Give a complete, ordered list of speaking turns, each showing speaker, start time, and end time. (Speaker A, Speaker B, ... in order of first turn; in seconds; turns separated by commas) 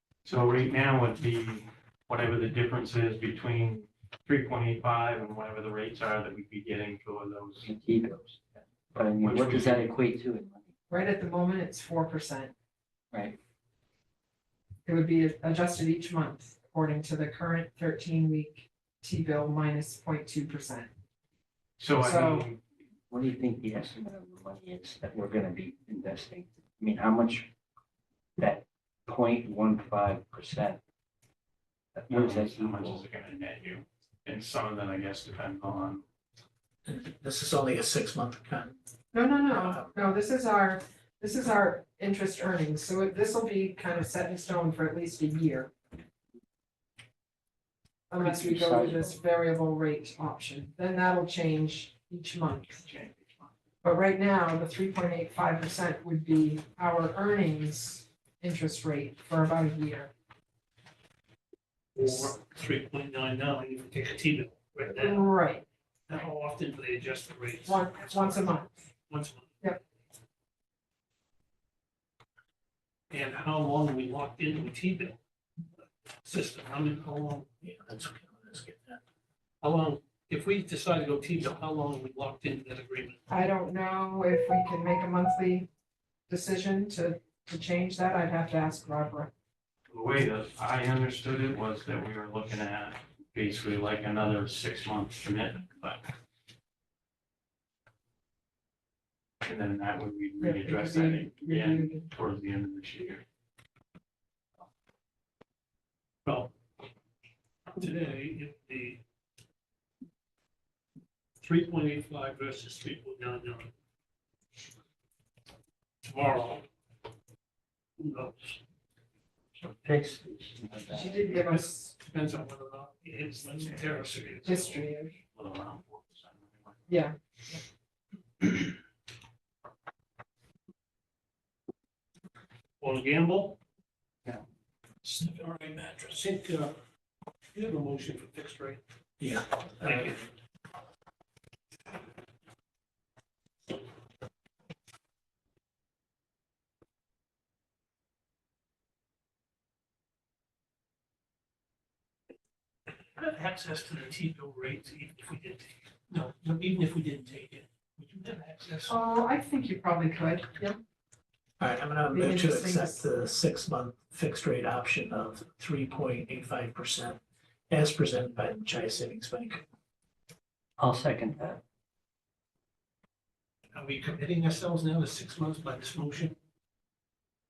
Speaker A: 0.2-7.7, Speaker B: 7.6-10.7, Speaker A: 9.2-9.8, Speaker C: 10.9-12.5, Speaker B: 13.1-13.4, Speaker C: 14.8-20.9, Speaker A: 21.8-22.6, Speaker C: 22.0-22.5, Speaker B: 23.1-27.5, Speaker B: 28.4-30.8, Speaker B: 31.9-33.0, Speaker A: 32.1-36.0, Speaker D: 36.9-38.8, Speaker C: 39.1-45.7, Speaker D: 39.5-39.9, Speaker C: 48.1-52.9, Speaker B: 48.2-49.2, Speaker A: 52.8-53.5, Speaker C: 53.8-60.1, Speaker E: 62.0-65.3, Speaker C: 64.9-65.7, Speaker E: 66.1-68.5, Speaker C: 67.7-68.9, Speaker E: 69.1-69.5, Speaker E: 73.1-75.2, Speaker E: 76.2-77.5, Speaker D: 77.6-79.0, Speaker E: 79.6-83.2, Speaker C: 83.3-85.7, Speaker C: 86.3-89.3, Speaker A: 89.9-96.1, Speaker A: 99.4-103.2, Speaker C: 100.4-102.1, Speaker E: 106.2-106.5, Speaker E: 107.7-109.0, Speaker E: 111.4-113.7, Speaker E: 116.0-116.7, Speaker E: 118.0-118.6, Speaker B: 119.6-121.3, Speaker C: 120.9-121.9, Speaker E: 121.3-124.9, Speaker A: 123.5-124.8, Speaker C: 124.4-125.1, Speaker A: 125.3-126.9, Speaker C: 126.9-127.6, Speaker E: 132.8-133.6, Speaker D: 135.0-136.0, Speaker E: 135.4-136.8, Speaker E: 137.5-138.8, Speaker D: 139.2-140.1, Speaker E: 139.8-140.2, Speaker E: 153.2-158.9, Speaker C: 158.9-160.8, Speaker D: 161.6-169.6, Speaker C: 162.1-163.0, Speaker B: 170.8-171.6, Speaker E: 173.7-176.4